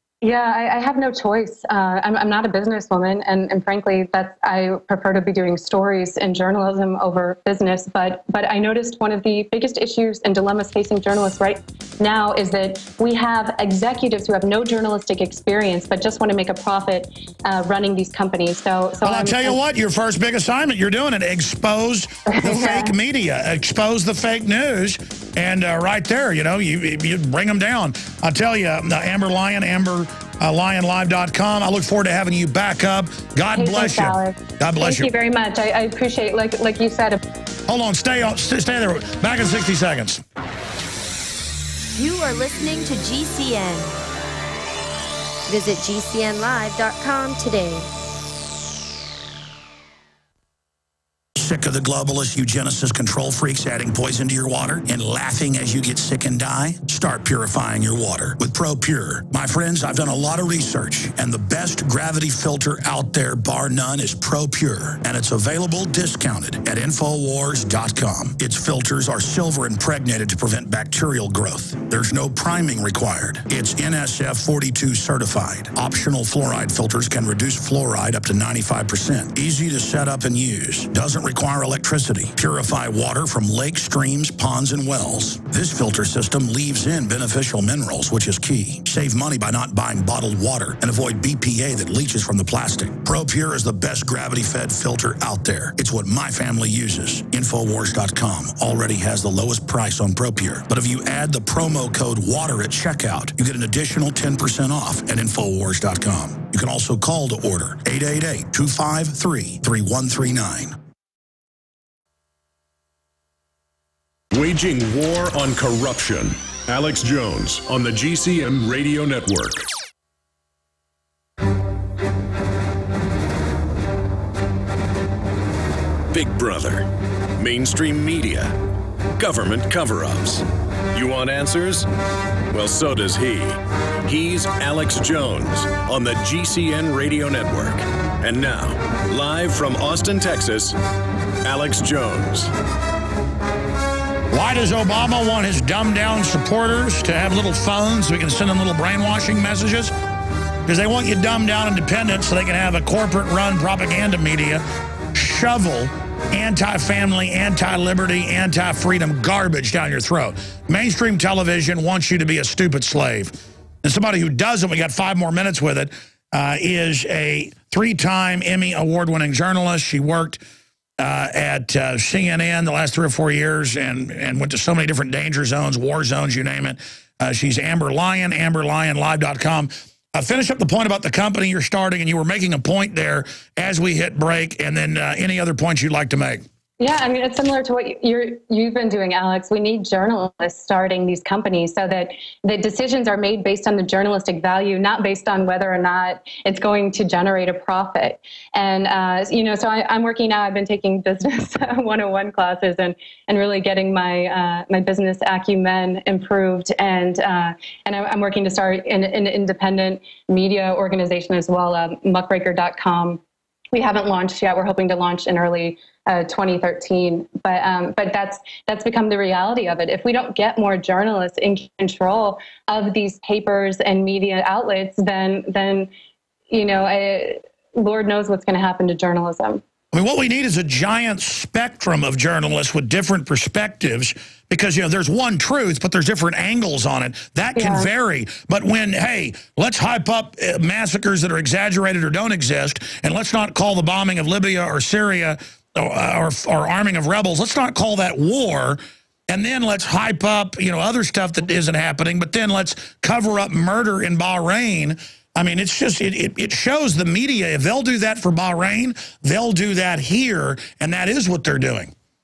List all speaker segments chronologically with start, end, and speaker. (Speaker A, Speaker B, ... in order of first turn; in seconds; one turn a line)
Speaker A: 0.2-19.6
Speaker B: 19.1-35.1
Speaker A: 22.3-22.9
Speaker A: 33.5-37.2
Speaker B: 37.7-40.2
Speaker C: 41.9-43.9
Speaker C: 45.5-47.9
Speaker B: 51.4-110.8
Speaker D: 114.3-119.6
Speaker D: 126.1-128.6
Speaker D: 129.2-131.9
Speaker D: 132.5-140.8
Speaker D: 141.4-142.5
Speaker B: 144.3-149.9
Speaker B: 150.7-154.6
Speaker B: 155.1-170.4
Speaker B: 171.0-186.4
Speaker A: 186.8-213.2
Speaker A: 213.7-225.9
Speaker A: 226.5-229.6
Speaker B: 229.9-261.9
Speaker A: 237.6-237.9